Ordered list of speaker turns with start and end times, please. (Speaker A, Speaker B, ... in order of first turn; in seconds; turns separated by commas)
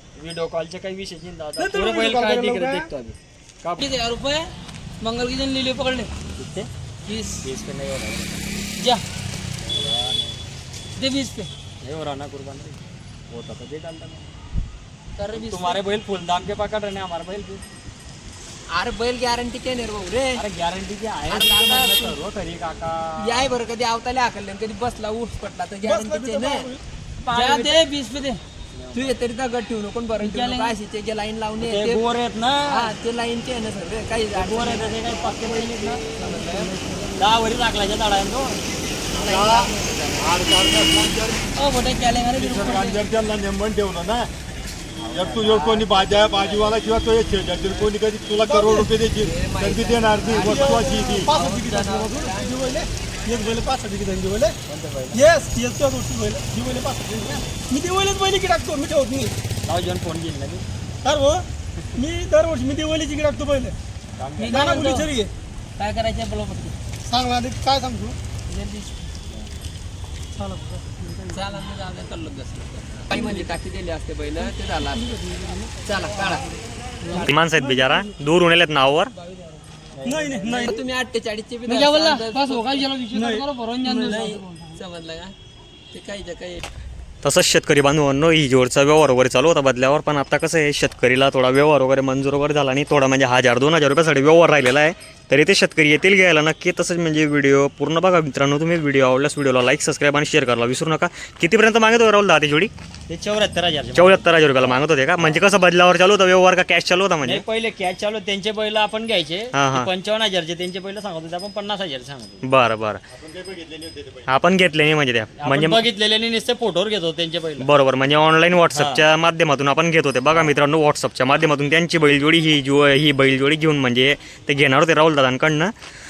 Speaker A: 0.1-3.8, Speaker B: 1.6-2.9, Speaker C: 3.8-4.5, Speaker C: 5.0-6.1, Speaker A: 6.4-6.7, Speaker C: 7.0-7.4, Speaker A: 7.4-8.6, Speaker A: 9.6-10.4, Speaker C: 11.0-11.5, Speaker A: 11.8-14.3, Speaker C: 15.2-15.8, Speaker A: 15.3-17.6, Speaker D: 18.7-20.4, Speaker A: 20.3-23.6, Speaker D: 21.3-22.2, Speaker D: 23.2-26.7, Speaker B: 25.8-26.8, Speaker D: 27.2-27.8, Speaker C: 27.3-28.4, Speaker A: 28.7-29.1, Speaker D: 28.9-32.0, Speaker C: 30.2-30.7, Speaker A: 31.6-32.9, Speaker D: 32.7-36.7, Speaker A: 34.3-36.4, Speaker B: 36.2-37.1, Speaker A: 37.1-38.6, Speaker D: 39.1-40.3, Speaker E: 39.1-41.4, Speaker C: 41.5-43.0, Speaker E: 42.3-44.3, Speaker D: 42.4-42.8, Speaker A: 45.0-47.9, Speaker E: 45.1-51.3, Speaker B: 48.4-48.9, Speaker D: 49.1-52.8, Speaker B: 50.4-54.5, Speaker A: 54.7-55.2, Speaker B: 55.1-59.3, Speaker A: 59.6-60.6, Speaker B: 61.0-61.4, Speaker B: 62.0-63.7, Speaker A: 64.2-64.8, Speaker C: 64.4-65.1, Speaker B: 64.5-65.3, Speaker C: 65.8-66.7, Speaker B: 67.0-68.2, Speaker D: 68.5-69.1, Speaker B: 70.3-71.6, Speaker D: 71.3-75.2, Speaker B: 73.1-73.5, Speaker B: 74.4-76.4, Speaker D: 75.8-76.5, Speaker B: 77.0-78.2, Speaker F: 77.2-79.1, Speaker A: 79.9-80.8, Speaker B: 80.0-80.8, Speaker D: 80.5-82.9, Speaker C: 81.7-84.8, Speaker B: 83.1-84.3, Speaker D: 84.0-85.3, Speaker D: 85.9-86.6, Speaker F: 87.2-102.7, Speaker A: 103.1-105.5, Speaker F: 104.0-107.4, Speaker A: 107.2-112.4, Speaker F: 109.5-109.9, Speaker F: 112.4-113.0, Speaker E: 113.1-114.3, Speaker F: 114.3-115.8, Speaker A: 115.4-117.7, Speaker F: 117.6-125.7, Speaker A: 118.7-119.0, Speaker A: 120.3-120.5